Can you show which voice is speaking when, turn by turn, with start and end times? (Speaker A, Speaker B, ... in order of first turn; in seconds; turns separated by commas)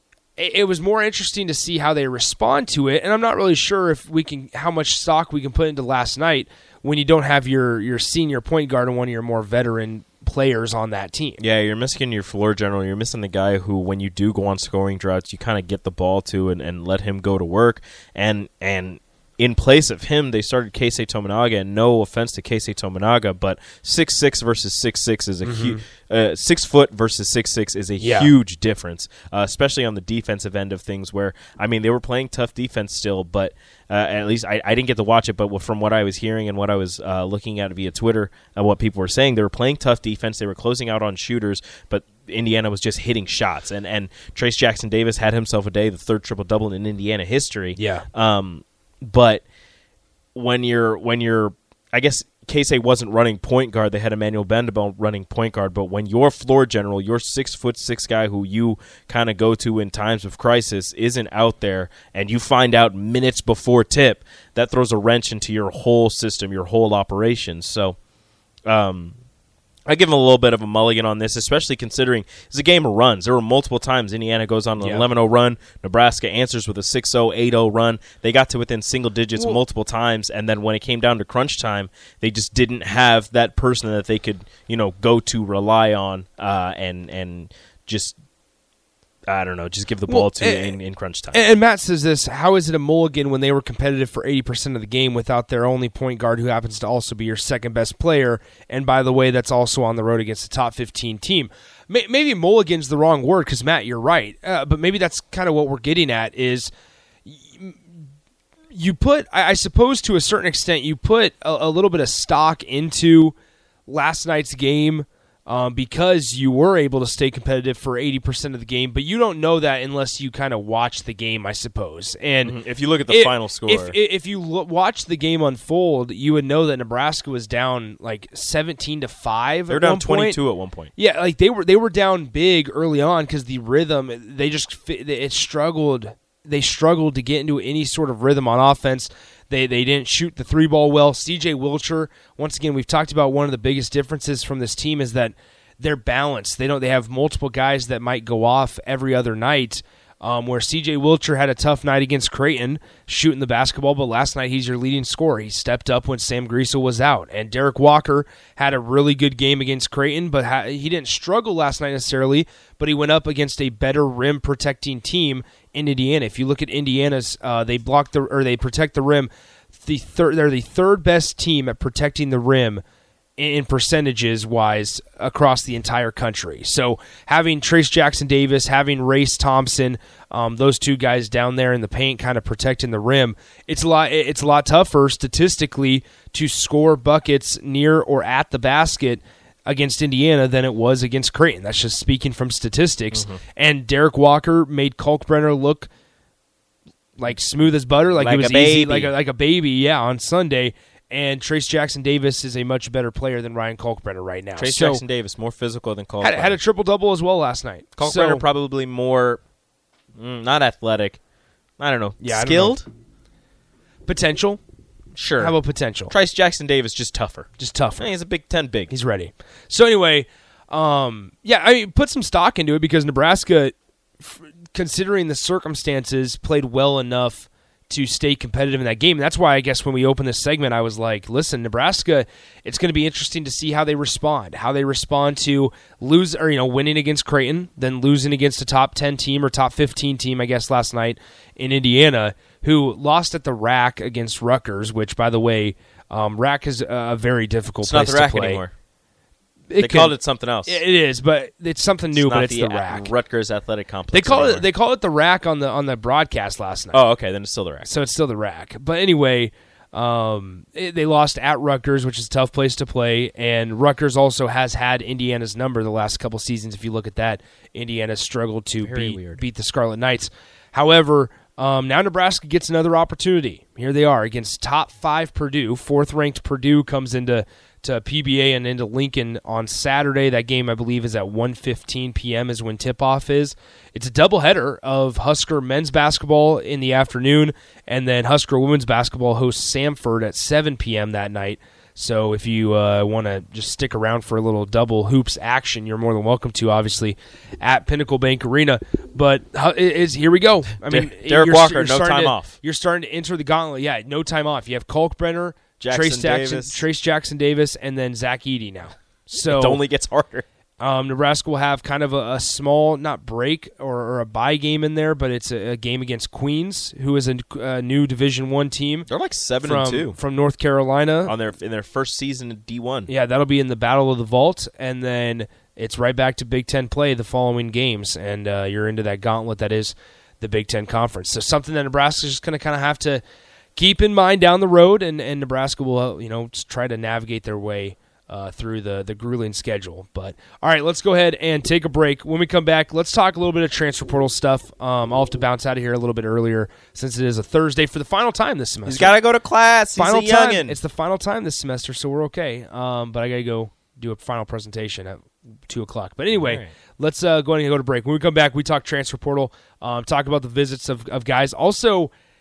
Speaker A: 0.4-11.4, Speaker B: 11.4-49.4, Speaker A: 25.4-25.8, Speaker A: 28.0-28.3, Speaker A: 47.8-48.1, Speaker B: 50.4-68.0, Speaker B: 68.7-69.2, Speaker B: 69.9-88.2, Speaker A: 74.8-75.1, Speaker B: 89.3-91.4, Speaker A: 90.1-90.8, Speaker A: 91.3-106.7, Speaker A: 107.3-107.8, Speaker A: 108.7-113.3, Speaker A: 113.9-130.4, Speaker B: 122.4-124.0, Speaker B: 129.7-130.9, Speaker A: 131.0-172.8, Speaker A: 173.4-195.9, Speaker B: 193.1-193.4, Speaker A: 197.2-205.0, Speaker B: 198.2-199.1, Speaker B: 204.6-206.6, Speaker A: 206.2-208.4, Speaker B: 208.0-209.4, Speaker B: 210.2-211.2, Speaker B: 211.8-212.9, Speaker A: 212.2-212.8, Speaker A: 214.1-214.6, Speaker B: 215.2-218.9, Speaker A: 215.4-216.1, Speaker A: 217.6-218.1, Speaker A: 218.9-248.6, Speaker B: 247.8-248.7, Speaker A: 249.7-253.1, Speaker B: 249.8-250.8, Speaker B: 252.1-254.7, Speaker A: 254.1-257.0, Speaker B: 256.9-257.9, Speaker A: 257.8-309.8, Speaker B: 268.8-269.4, Speaker B: 300.9-302.6, Speaker B: 305.8-306.9, Speaker B: 309.3-310.4, Speaker A: 310.8-319.1, Speaker B: 319.1-320.2, Speaker A: 319.6-321.3, Speaker B: 321.2-323.1, Speaker A: 323.1-333.2, Speaker A: 333.8-349.1, Speaker B: 348.9-350.8, Speaker A: 349.9-362.1, Speaker B: 356.3-356.7